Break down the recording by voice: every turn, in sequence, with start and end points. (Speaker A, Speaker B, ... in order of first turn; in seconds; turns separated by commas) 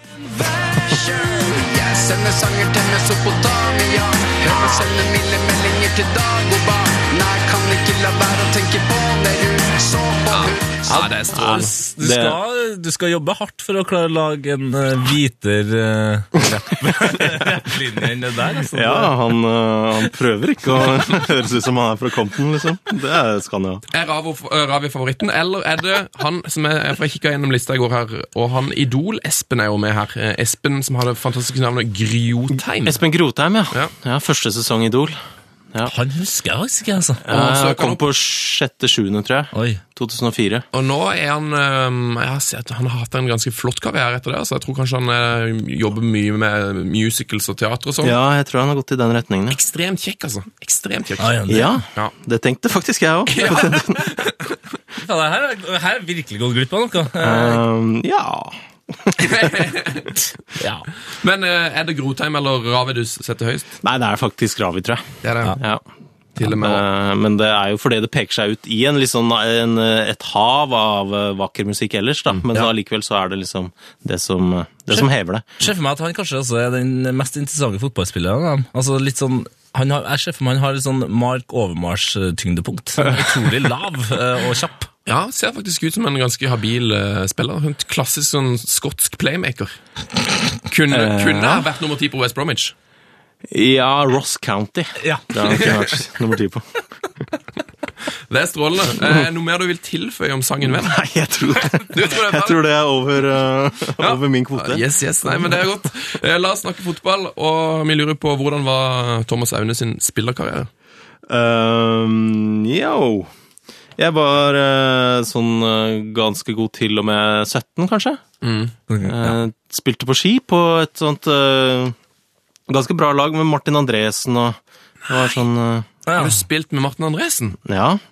Speaker A: 0.4-11.2, Speaker B: 10.3-11.7, Speaker C: 10.9-19.2, Speaker D: 11.3-12.4, Speaker D: 16.4-17.6, Speaker D: 18.7-23.8, Speaker B: 23.9-33.0, Speaker D: 32.9-35.1, Speaker C: 35.9-37.2, Speaker D: 37.2-40.6, Speaker B: 37.3-38.0, Speaker C: 39.5-39.8, Speaker B: 40.7-48.2, Speaker D: 48.0-49.6, Speaker B: 49.5-52.1, Speaker C: 51.2-51.8, Speaker D: 51.5-54.0, Speaker B: 53.3-54.6, Speaker C: 55.0-57.6, Speaker D: 57.2-59.5, Speaker B: 59.2-60.2, Speaker C: 60.6-60.9, Speaker B: 61.1-63.7, Speaker D: 63.8-65.8, Speaker B: 65.2-65.6, Speaker B: 66.4-66.8, Speaker D: 66.4-75.7, Speaker C: 75.6-84.9, Speaker B: 85.0-89.8, Speaker B: 90.7-92.7, Speaker D: 90.9-91.7, Speaker D: 93.5-96.6, Speaker C: 95.0-95.6, Speaker B: 95.5-95.8, Speaker B: 98.3-101.0, Speaker D: 100.6-105.6, Speaker B: 101.8-102.6, Speaker B: 104.0-110.7, Speaker D: 111.3-113.3, Speaker D: 114.0-118.2, Speaker B: 118.4-118.7, Speaker C: 118.9-119.3, Speaker D: 119.0-122.0, Speaker D: 122.7-125.9, Speaker C: 126.1-126.4, Speaker B: 126.1-127.6, Speaker D: 127.6-128.0